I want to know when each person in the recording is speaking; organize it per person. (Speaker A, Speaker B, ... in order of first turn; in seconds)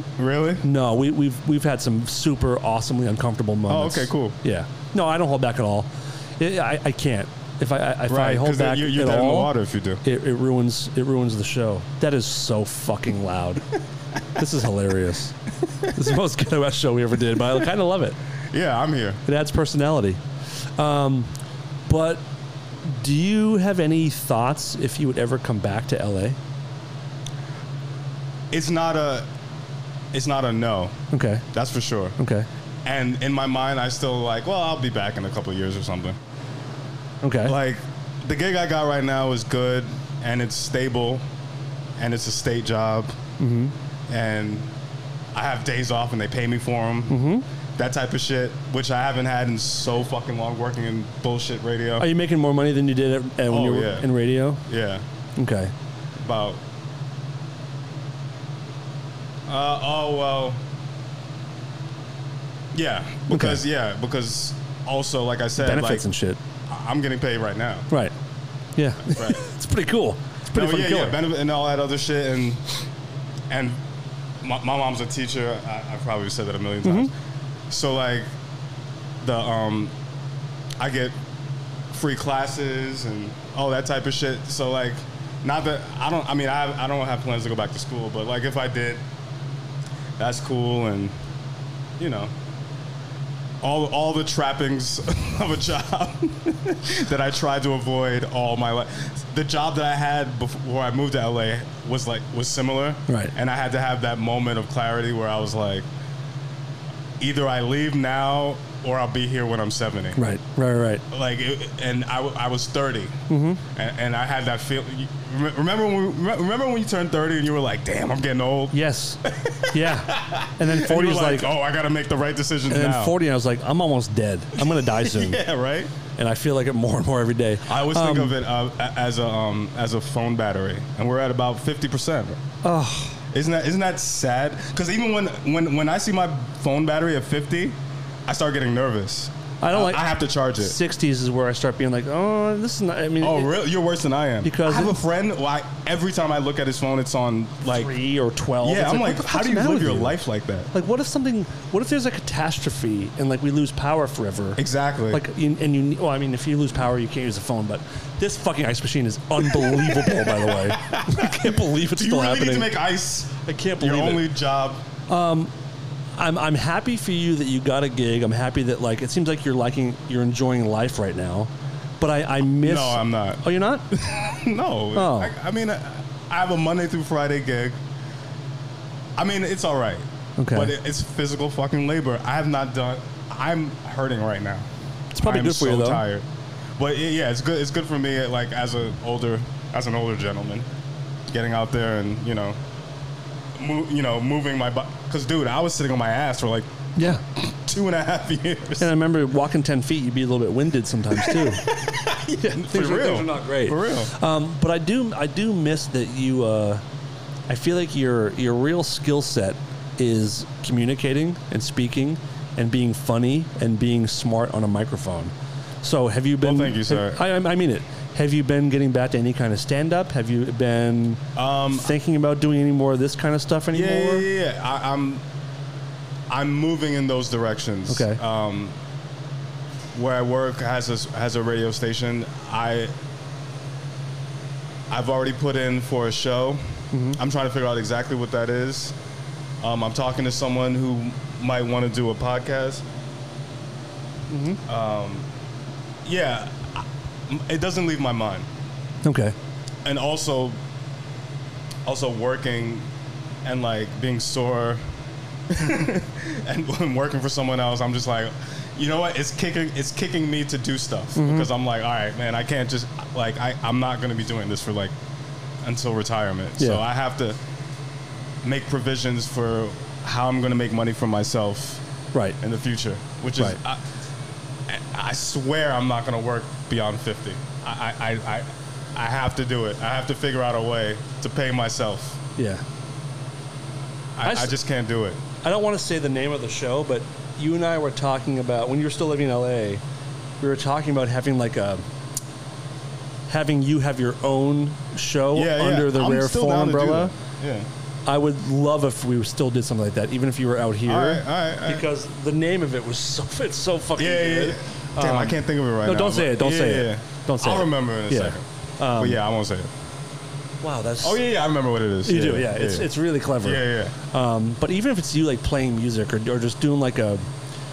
Speaker A: 0.2-0.7, 3.7-4.4, 8.1-10.0, 18.5-19.2, 28.5-29.3, 30.1-31.0, 31.5-32.2, 32.9-36.2, 37.5-41.2, 42.0-43.2, 44.1-44.7, 45.3-47.2, 47.8-52.1, 53.5-54.1, 54.7-55.1, 56.2-56.6, 59.5-60.6, 62.7-66.1, 66.7-67.9, 69.0-69.4, 70.5-72.7, 73.5-73.8, 74.4-77.1, 77.7-78.3, 79.2-80.0, 80.8-81.2, 81.9-89.0, 90.2-91.2, 92.0-92.3, 93.6-105.9, 107.2-110.3, 111.1-123.2, 124.6-125.9, 127.7-132.4, 133.3-140.8, 143.2-147.9, 148.6-150.7, 154.6-155.2, 159.5-164.8, 172.6-177.8, 179.2-184.7, 185.2-190.7, 191.3-192.6, 193.6-196.7, 197.3-198.9, 201.2-204.1, 216.4-217.2, 221.4-221.9, 223.7-225.2, 226.3-228.8, 229.9-232.9, 234.9-239.0, 239.6-242.8, 244.7-245.3, 246.0-248.5, 249.8-250.6, 251.8-252.9, 253.4-254.8, 255.5-264.9, 265.6-267.4, 268.4-271.8, 272.4-273.8, 274.7-282.2, 284.2-285.2, 295.3-297.7, 300.9-301.9, 304.0-308.4, 309.0-309.7, 311.0-312.9, 313.4-313.9
Speaker B: 0.6-13.7, 14.4-15.3, 15.9-18.2, 19.3-20.2, 20.8-21.3, 21.9-22.3, 22.8-26.4, 31.1-31.5, 32.2-32.5, 37.2-37.5, 43.4-43.8, 47.1-47.5, 52.0-54.6, 55.4-55.7, 63.3-63.6, 65.6-66.4, 68.8-71.2, 76.8-77.1, 103.1-103.3, 110.2-111.0, 113.3-113.6, 118.7-121.5, 122.7-125.4, 126.2-128.4, 132.6-133.2, 139.6-140.0, 140.6-143.5, 144.4-145.0, 147.7-150.2, 150.7-162.7, 163.4-164.3, 165.1-165.5, 166.2-173.8, 174.9-175.3, 180.4-180.7, 185.1-186.0, 197.0-197.2, 198.8-201.7, 202.4-206.8, 207.5-224.3, 227.9-228.2, 236.9-237.2, 244.3-244.6, 249.0-249.4, 261.2-261.5, 282.4-282.6, 284.2-284.6, 285.4-289.8, 290.4-291.8, 293.3-297.1, 298.1-309.2, 310.6-311.2, 312.0-317.2